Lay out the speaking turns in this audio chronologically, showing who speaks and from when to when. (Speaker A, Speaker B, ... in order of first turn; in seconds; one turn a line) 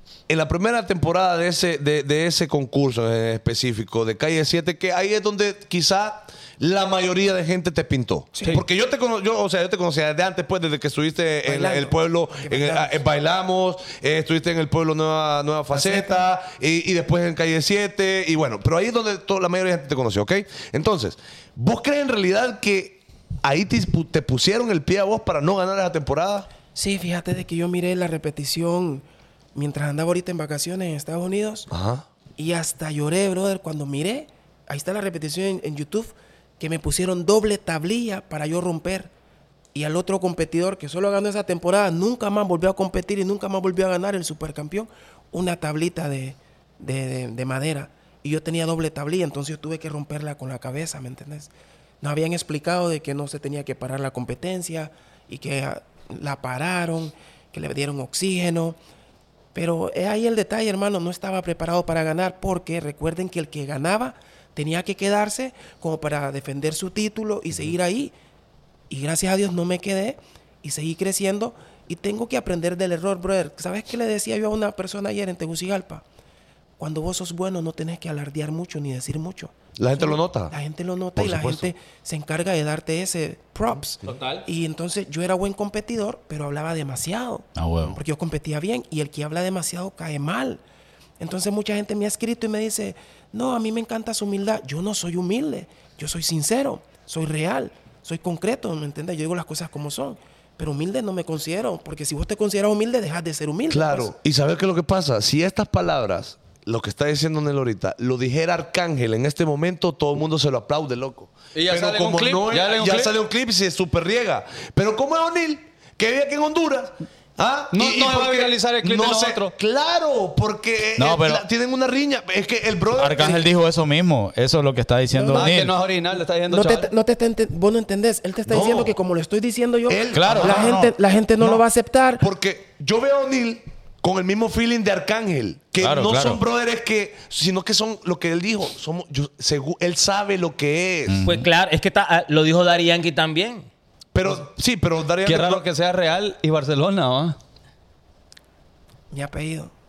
Speaker A: 0.3-26.5
Speaker B: 11.5-13.0
Speaker B: 15.7-16.2
Speaker B: 26.8-31.7
Speaker A: 31.7-32.1
Speaker B: 32.4-39.1
Speaker B: 39.7-51.5
Speaker B: 52.0-58.8
Speaker B: 59.5-68.1
Speaker B: 68.9-76.0
Speaker B: 76.8-90.6
Speaker A: 79.8-80.5
Speaker A: 81.2-81.7
Speaker C: 84.0-84.5
Speaker D: 87.6-88.0
Speaker B: 91.2-104.1
Speaker A: 103.7-123.5
Speaker E: 111.5-113.2
Speaker E: 117.7-119.6
Speaker D: 121.0-121.4
Speaker D: 123.0-125.8
Speaker B: 125.1-125.5
Speaker E: 125.3-126.9
Speaker B: 126.5-132.3
Speaker A: 128.5-128.9
Speaker A: 129.9-130.8
Speaker D: 130.1-130.9
Speaker A: 132.2-141.2
Speaker D: 135.8-136.4
Speaker D: 141.1-141.5
Speaker C: 141.2-143.7
Speaker A: 144.1-145.7
Speaker E: 145.2-147.4
Speaker B: 149.1-149.7